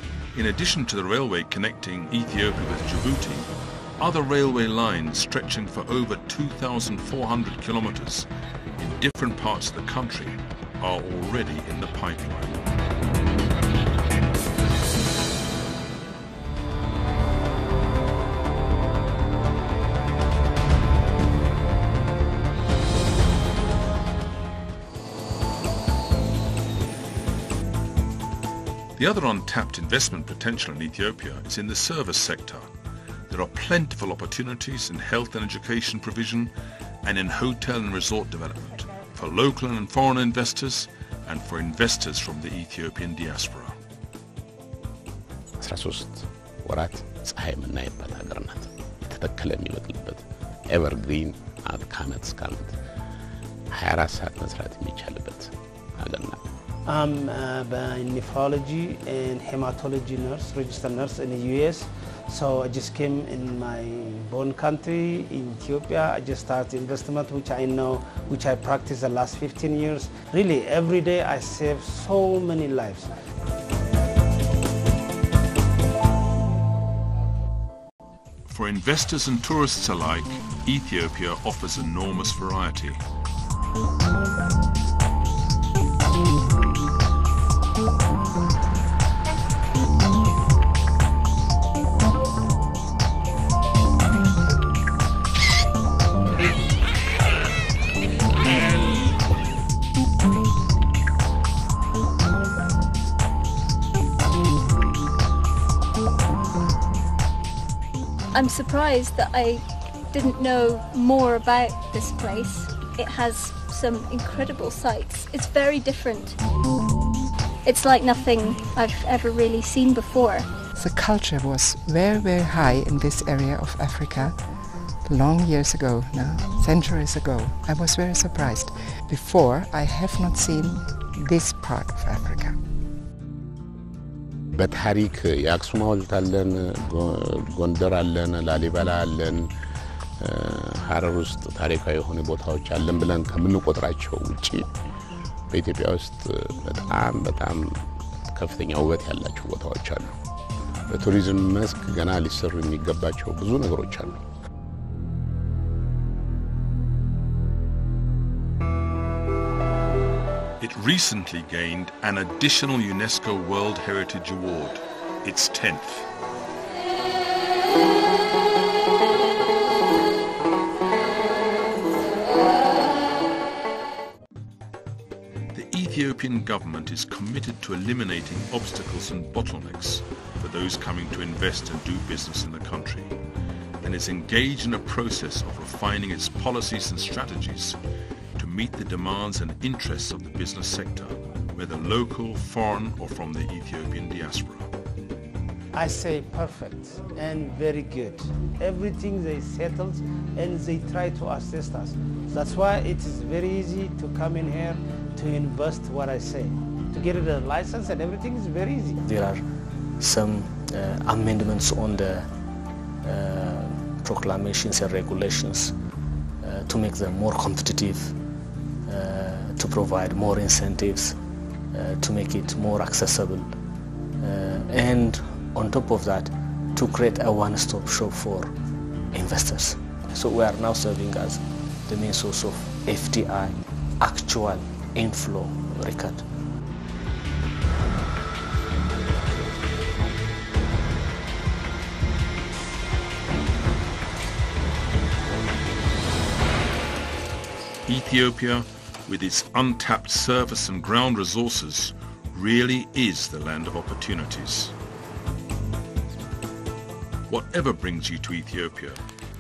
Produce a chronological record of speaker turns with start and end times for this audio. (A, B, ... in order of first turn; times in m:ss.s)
0:00.3-0:08.3 A
0:08.8-0:12.6 A
0:29.0-0:32.7 A
0:33.3-0:43.8 A
0:45.6-0:52.8 B
0:53.7-0:56.4 B
0:56.8-1:13.1 C
1:18.5-1:23.0 A
1:48.3-1:56.4 D
1:57.6-2:00.5 D
2:00.7-2:04.5 E
2:05.0-2:12.6 E
2:14.5-2:19.5 B
2:20.2-2:24.8 B
2:25.5-2:30.2 B
2:30.9-2:34.2 B
2:40.6-2:46.1 A
2:55.5-3:03.1 A
3:03.8-3:07.8 A
3:08.4-3:14.7 A
3:15.7-3:29.0 C
3:29.0-3:29.4 F
3:30.0-3:32.3 F
3:33.0-3:35.7 F
3:36.4-3:38.2 F
3:38.8-3:41.2 F
3:41.7-3:43.5 F
3:44.2-3:48.5 F
3:49.1-3:56.2 F
4:07.8-4:14.7 A
4:17.3-4:19.0 A